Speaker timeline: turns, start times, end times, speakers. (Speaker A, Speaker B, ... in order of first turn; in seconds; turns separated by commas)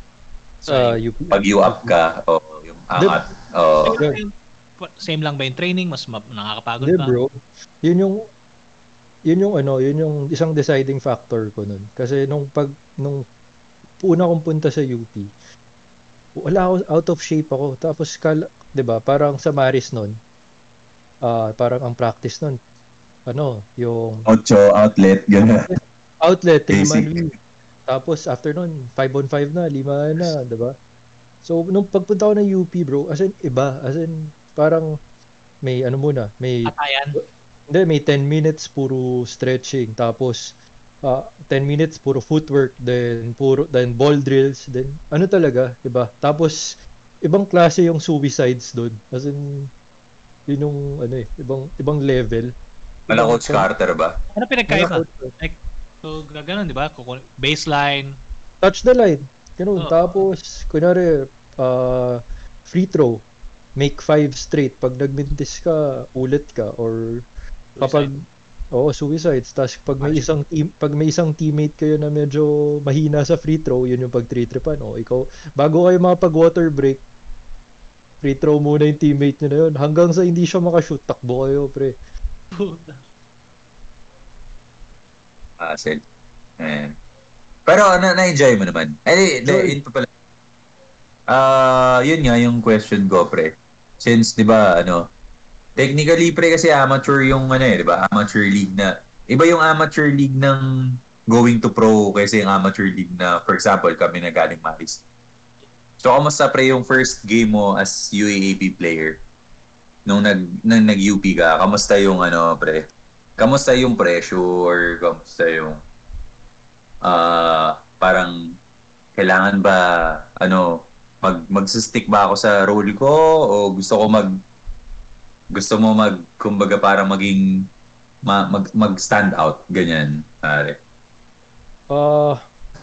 Speaker A: 0.6-1.0, Speaker B: 0.7-1.9, Speaker C: 1.3-4.0, Speaker A: 3.8-7.2, Speaker B: 3.9-4.2, Speaker B: 6.8-8.2, Speaker B: 9.3-13.2, Speaker B: 14.0-15.3, Speaker B: 16.4-20.2, Speaker B: 21.2-22.6, Speaker B: 23.3-24.3, Speaker C: 24.3-25.7, Speaker B: 25.7-27.3, Speaker C: 26.7-27.1, Speaker B: 27.9-30.7, Speaker B: 31.4-34.9, Speaker B: 35.6-46.6, Speaker A: 36.6-37.2, Speaker B: 47.2-49.7, Speaker B: 50.5-52.5, Speaker B: 53.1-53.7, Speaker C: 53.1-54.2, Speaker A: 54.4-58.1, Speaker B: 54.7-55.3, Speaker B: 58.6-63.2, Speaker A: 59.8-60.1, Speaker B: 63.8-67.2, Speaker A: 67.8-68.1, Speaker B: 67.8-68.1, Speaker B: 68.7-77.0, Speaker B: 78.2-81.9, Speaker A: 82.5-83.0, Speaker C: 85.6-86.0, Speaker C: 86.6-87.0, Speaker C: 87.7-90.1, Speaker B: 89.4-89.8, Speaker C: 91.3-95.0, Speaker C: 95.8-100.7, Speaker C: 101.2-105.0, Speaker C: 106.0-109.2, Speaker C: 110.0-112.8, Speaker C: 113.4-115.8, Speaker C: 117.0-118.3, Speaker C: 119.2-119.8, Speaker C: 120.4-124.3, Speaker C: 125.5-127.7, Speaker C: 128.2-130.8, Speaker B: 131.9-132.4